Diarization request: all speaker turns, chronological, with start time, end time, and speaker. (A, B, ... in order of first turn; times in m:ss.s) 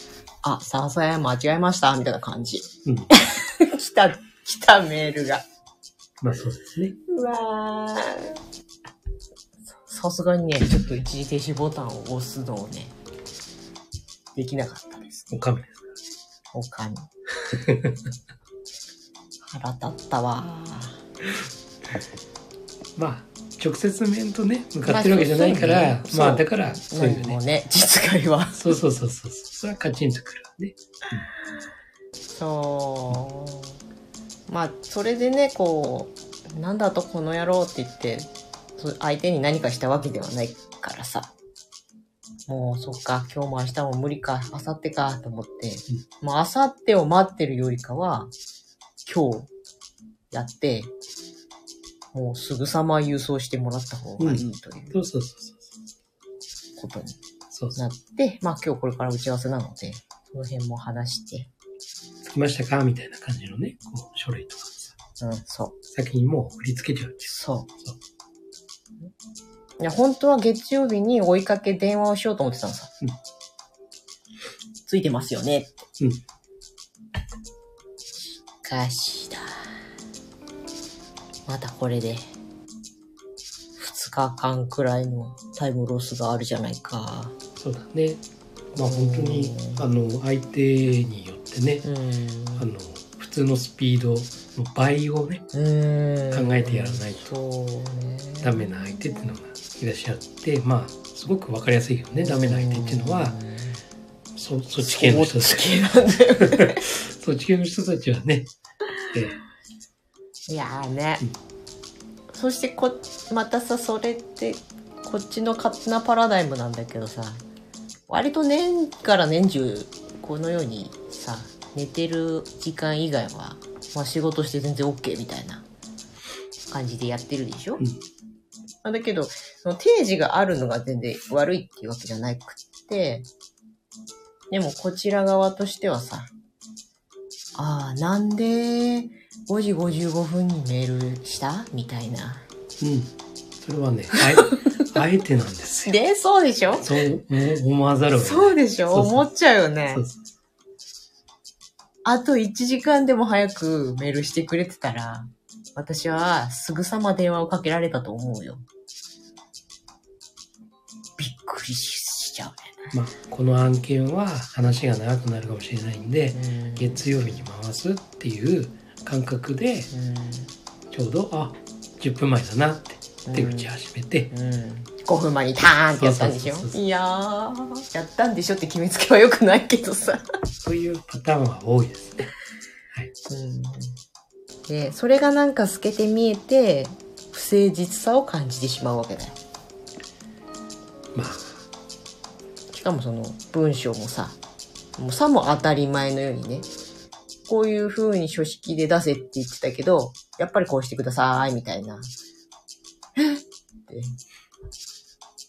0:00.4-0:05.4 A
0:02.8-0:03.1 B
0:06.2-0:07.0 B
0:07.0-0:08.4 A
0:09.7-0:13.0 A
0:14.4-0:15.4 A
0:15.3-0:15.9 B
0:16.5-0:17.1 A
0:17.5-0:18.1 B
0:19.4-0:21.1 A
0:23.0-0:27.4 B
0:24.8-0:28.6 A
0:28.5-0:31.2 B
0:32.3-0:33.8 A
0:34.5-0:41.3 A
0:42.5-0:48.3 A
0:49.1-0:49.5 A
0:50.3-0:50.9 A
0:52.1-0:55.0 A
0:54.2-0:55.7 B
0:56.8-0:57.2 A
0:57.5-0:57.8 B
0:57.8-1:01.5 A
1:02.2-1:04.9 B
1:05.2-1:05.8 A
1:05.9-1:08.0 B
1:07.2-1:07.7 A
1:09.8-1:12.9 A
1:14.9-1:15.9 A
1:18.3-1:19.7 A
1:21.5-1:22.3 A
1:23.8-1:27.4 A
1:27.6-1:31.9 B
1:28.8-1:29.8 A
1:31.8-1:32.7 A
1:32.6-1:35.4 B
1:35.5-1:39.4 A
1:36.3-1:37.3 B
1:38.4-1:43.4 B
1:42.2-1:43.8 A
1:44.3-1:45.8 B
1:44.8-1:46.8 A
1:46.3-1:48.5 B
1:50.5-1:51.3 A
1:52.3-1:57.4 A
1:58.1-2:05.7 A
2:06.7-2:07.8 A
2:08.8-2:13.3 A
2:14.5-2:16.3 A
2:17.6-2:22.4 A
2:22.8-2:26.0 B
2:24.2-2:24.8 A
2:25.9-2:26.9 A
2:26.8-2:29.3 B
2:28.2-2:30.0 A
2:29.9-2:30.2 B
2:32.0-2:38.6 A
2:41.2-2:42.9 A
2:42.9-2:49.9 B
2:46.3-2:47.3 A
2:49.9-2:50.5 A
2:50.9-2:54.3 B
2:53.2-2:53.7 A
2:54.3-3:00.2 A
2:55.9-2:56.8 B
3:00.6-3:02.3 B
3:03.3-3:04.0 A
3:04.7-3:09.4 A
3:11.1-3:11.6 B
3:12.7-3:14.4 A
3:15.0-3:16.7 A
3:17.5-3:22.1 A
3:23.2-3:24.2 A